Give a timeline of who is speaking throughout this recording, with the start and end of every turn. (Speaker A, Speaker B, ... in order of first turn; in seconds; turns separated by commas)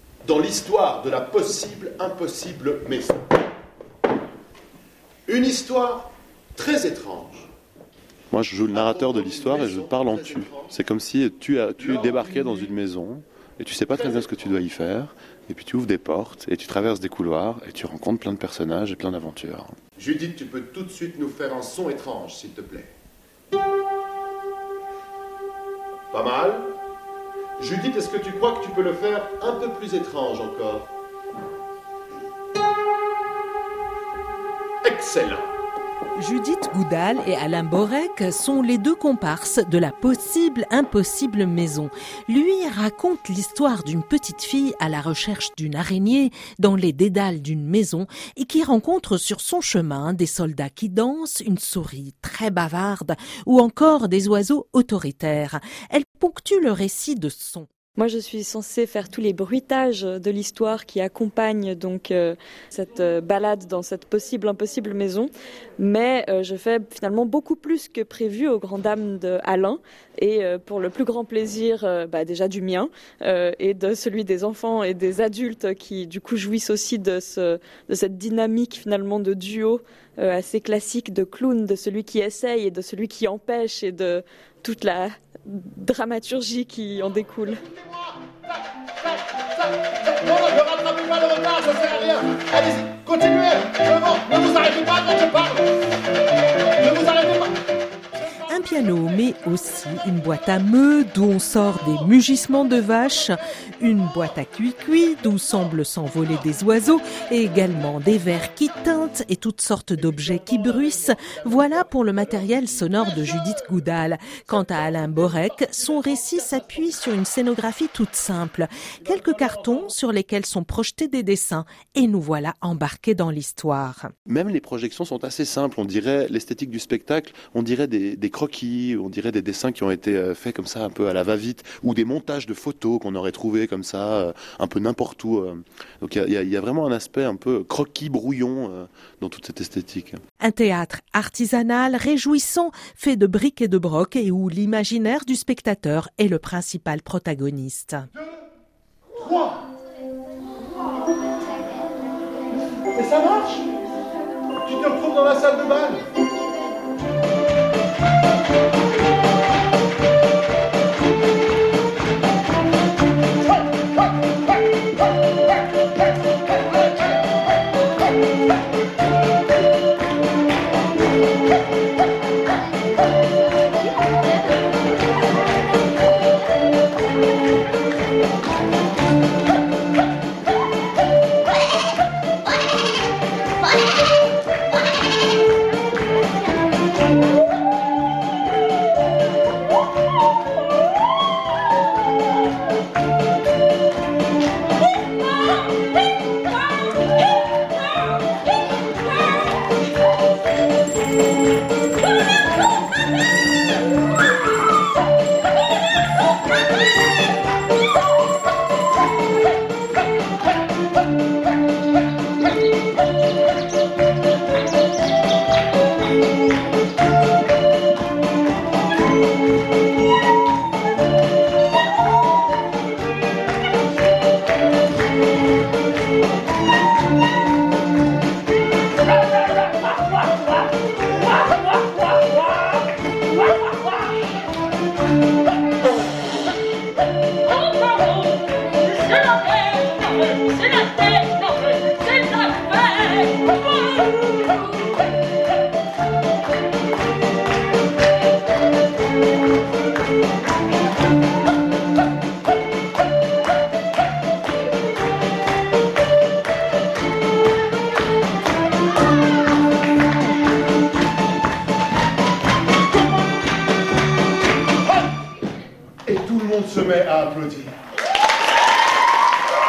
Speaker A: 0.2-3.2, Speaker A: 5.3-7.5, Speaker B: 8.3-19.8, Speaker A: 8.7-10.8, Speaker A: 11.8-12.7, Speaker A: 13.9-14.5, Speaker A: 20.0-22.9, Speaker A: 26.1-26.7, Speaker A: 27.6-30.9, Speaker A: 34.8-35.5, Speaker C: 36.2-57.7, Speaker D: 58.0-87.6, Speaker A: 89.4-95.7, Speaker A: 96.8-97.5, Speaker C: 98.3-124.1, Speaker B: 124.3-140.2, Speaker C: 140.4-148.1, Speaker A: 149.1-149.6, Speaker A: 152.9-153.7, Speaker A: 154.6-156.1, Speaker D: 237.6-238.3, Speaker D: 239.0-244.1, Speaker A: 266.1-267.8